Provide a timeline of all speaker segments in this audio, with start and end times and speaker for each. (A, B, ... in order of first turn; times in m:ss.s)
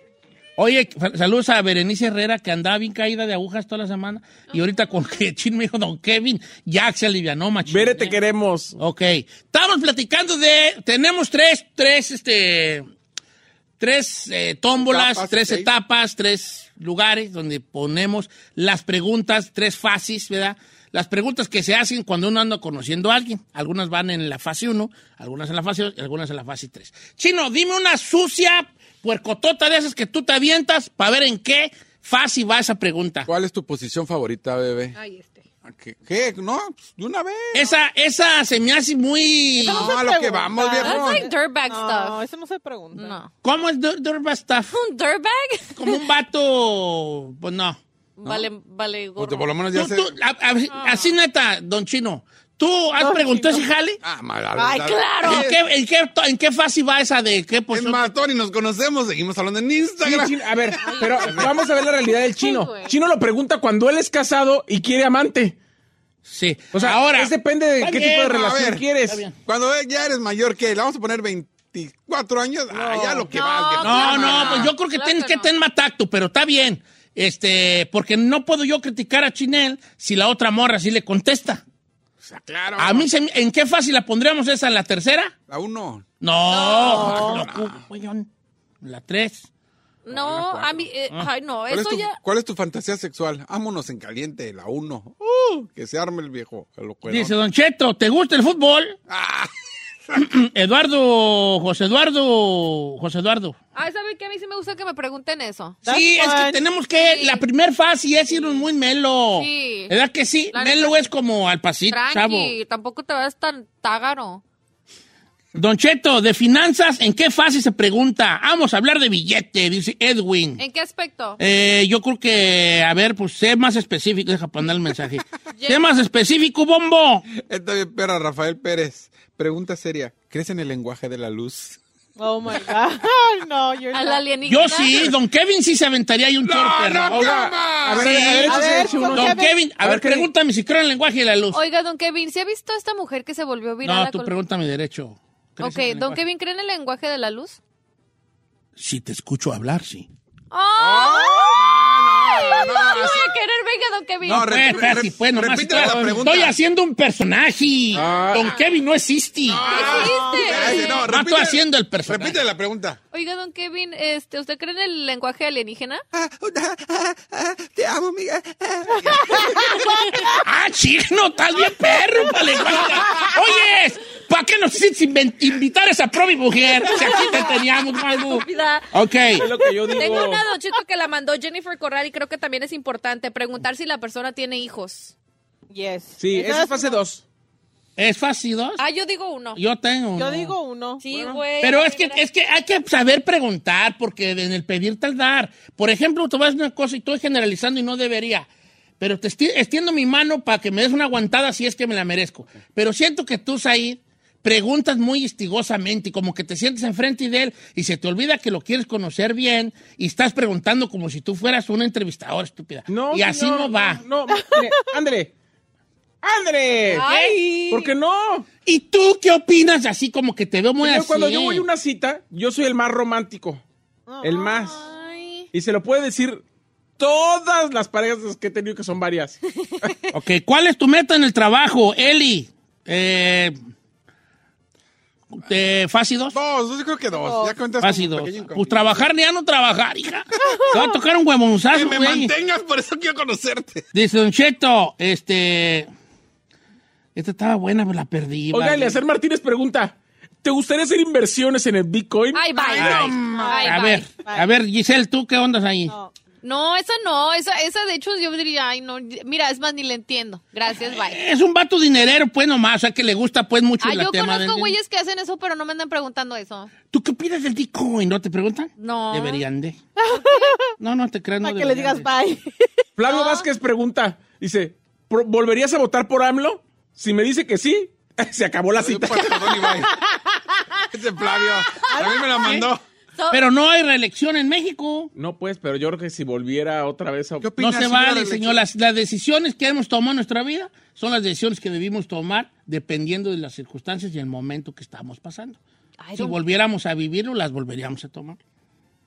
0:00.6-0:08.2 A
0:07.7-0:08.8 B
0:08.8-0:12.9 A
0:13.8-0:33.3 A
0:14.8-0:15.7 C
0:33.2-0:35.0 C
0:35.0-0:35.4 D
0:35.6-0:37.7 C
0:37.5-0:39.9 A
0:39.6-0:43.2 E
0:39.6-0:41.3 C
0:40.7-0:42.2 D
0:43.0-0:43.3 D
0:43.4-0:44.7 A
0:44.7-0:46.0 D
0:45.8-0:47.8 A
0:48.2-0:49.5 D
0:49.2-0:50.1 C
0:49.7-0:54.0 A
0:50.7-0:51.1 D
0:53.0-0:53.6 E
0:54.0-0:55.6 C
0:54.6-0:55.5 D
0:55.2-0:58.1 A
0:57.7-1:01.5 C
1:00.0-1:05.6 B
1:00.8-1:03.0 D
1:06.3-1:09.3 A
1:06.7-1:09.2 B
1:07.9-1:08.8 C
1:09.4-1:14.7 C
1:12.7-1:13.3 E
1:13.3-1:15.5 D
1:13.8-1:21.6 A
1:22.2-1:23.1 C
1:22.8-1:25.3 A
1:25.5-1:26.1 C
1:26.2-1:28.3 A
1:26.5-1:27.3 D
1:26.6-1:27.8 C
1:26.8-1:27.4 E
1:28.8-1:29.5 A
1:30.0-1:32.2 D
1:30.1-1:30.9 C
1:31.7-1:37.3 C
1:37.1-1:39.0 A
1:39.1-1:39.5 C
1:40.1-1:43.6 A
1:43.8-1:45.8 D
1:45.9-1:46.6 E
1:45.9-1:52.6 A
1:47.0-1:47.4 D
1:48.4-1:48.6 D
1:49.4-1:50.0 D
1:50.5-1:51.1 D
1:51.9-1:54.4 D
1:55.5-2:00.6 A
2:00.6-2:01.4 D
2:01.4-2:07.3 A
2:05.6-2:05.9 D
2:07.4-2:11.8 C
2:12.2-2:14.3 E
2:13.9-2:15.2 D
2:14.5-2:17.3 A
2:16.4-2:19.0 C
2:17.0-2:20.3 B
2:17.9-2:21.6 A
2:18.5-2:19.5 E
2:21.5-2:24.4 D
2:23.8-2:26.2 A
2:25.6-2:27.6 D
2:28.8-2:30.1 A
2:30.5-2:34.8 D
2:30.8-2:33.4 C
2:34.2-2:39.7 A
2:34.2-2:36.6 C
2:35.7-2:36.3 B
2:38.0-2:38.3 C
2:38.0-2:38.5 B
2:39.4-2:43.0 C
2:39.6-2:41.1 D
2:40.3-2:41.0 E
2:41.0-2:42.4 A
2:43.1-2:46.0 D
2:46.1-2:49.8 C
2:50.3-2:59.5 A
2:56.8-2:59.0 D
2:59.4-3:00.4 B
2:59.6-3:05.1 D
3:05.7-3:07.0 E
3:06.2-3:07.2 B
3:08.0-3:08.8 A
3:08.8-3:09.6 D
3:09.6-3:10.6 A
3:10.2-3:11.0 E
3:11.0-3:12.2 D
3:11.6-3:18.5 A
3:19.0-3:34.0 A
3:32.9-3:35.3 B
3:34.3-3:34.8 E
3:36.2-3:37.1 B
3:36.9-3:37.9 D
3:37.0-3:37.3 A
3:37.7-3:38.5 B
3:38.6-3:41.7 A
3:40.8-3:43.6 B
3:44.1-3:44.5 E
3:44.2-3:44.8 B
3:44.8-3:45.5 D
3:45.5-3:46.4 B
3:47.0-3:49.9 B
3:50.1-3:53.6 A
3:55.4-3:56.4 A
3:56.3-3:59.1 C
3:57.1-3:57.6 E
3:57.8-4:02.3 A
4:00.5-4:00.8 E
4:01.7-4:03.9 C
4:03.9-4:05.9 A
4:07.2-4:09.0 A
4:08.5-4:12.5 B
4:12.3-4:14.1 D
4:12.6-4:13.7 C
4:12.8-4:16.0 A
4:13.4-4:14.5 E
4:15.9-4:16.1 E
4:16.4-4:21.2 D
4:20.7-4:24.8 A
4:23.8-4:26.7 D
4:26.9-4:29.8 A
4:28.8-4:29.4 D
4:30.0-4:30.7 E
4:30.2-4:30.6 D
4:30.8-4:32.1 A
4:31.4-4:32.8 E
4:33.0-4:39.8 B
4:33.1-4:33.5 D
4:38.8-4:39.9 C
4:40.9-4:42.8 C
4:41.9-4:42.6 E
4:43.2-4:43.4 D
4:43.3-4:45.1 A
4:45.2-4:47.5 B
4:47.4-4:48.6 C
4:47.6-4:55.6 A
4:56.0-4:56.4 D
4:56.2-4:58.4 A